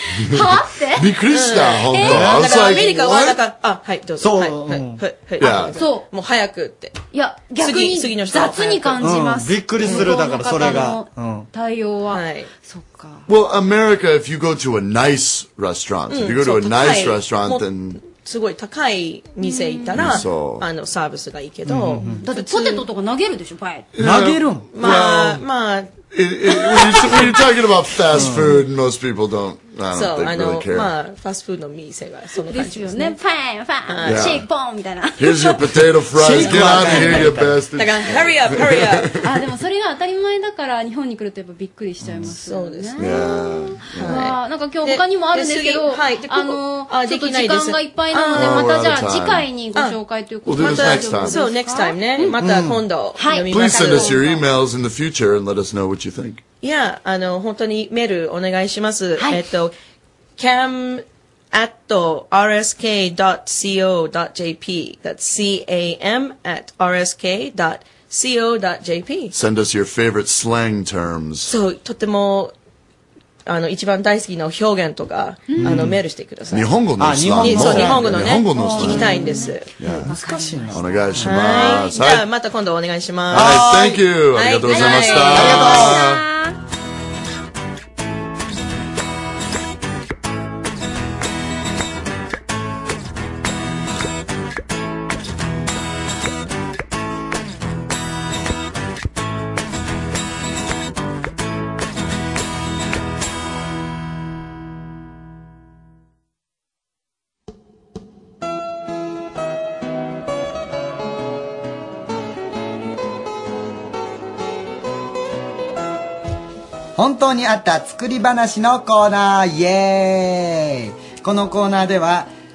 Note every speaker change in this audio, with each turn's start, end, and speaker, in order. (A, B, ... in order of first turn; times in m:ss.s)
0:00.1-0:01.1 A
0:00.9-0:03.4 B
0:01.3-0:07.0 C
0:01.9-0:02.8 A
0:04.2-0:05.0 D
0:05.4-0:05.8 B
0:05.8-0:06.1 A
0:07.1-0:13.3 A
0:07.6-0:09.2 C
0:09.0-0:11.5 D
0:09.8-0:10.9 C
0:12.1-0:12.5 C
0:13.3-0:18.0 B
0:16.1-0:22.8 C
0:19.4-0:20.2 A
0:19.9-0:20.7 B
0:21.7-0:22.2 D
0:22.2-0:23.9 A
0:24.0-0:25.4 B
0:24.0-0:24.7 D
0:24.7-0:25.9 C
0:26.1-0:30.9 B
0:26.9-0:27.3 A
0:28.1-0:28.6 D
0:29.9-0:33.2 C
0:32.5-0:35.8 A
0:33.9-0:34.3 C
0:34.1-0:34.5 B
0:35.2-0:39.1 B
0:36.2-0:37.6 D
0:36.5-0:37.2 C
0:36.9-0:37.2 A
0:37.8-0:39.1 C
0:39.2-0:52.4 A
0:42.0-0:42.3 B
0:42.3-0:43.0 C
0:43.0-0:44.2 B
0:44.0-0:48.7 C
0:48.4-0:49.5 B
0:49.7-0:50.0 C
0:50.5-0:51.4 B
0:50.6-0:54.4 C
0:52.4-0:52.8 D
0:53.2-0:54.4 A
0:53.5-0:56.4 B
0:56.6-0:59.7 C
1:00.4-1:09.3 C
1:09.3-1:11.5 B
1:11.4-1:12.5 C
1:13.5-1:16.7 C
1:15.5-1:15.8 A
1:16.5-1:19.1 B
1:17.0-1:18.2 D
1:17.3-1:19.7 C
1:18.5-1:21.8 A
1:19.8-1:20.2 B
1:20.1-1:20.9 D
1:20.7-1:22.3 B
1:21.2-1:25.8 C
1:23.3-1:26.2 B
1:23.3-1:23.9 D
1:24.7-1:26.6 A
1:25.4-1:26.0 D
1:57.0-2:02.3 D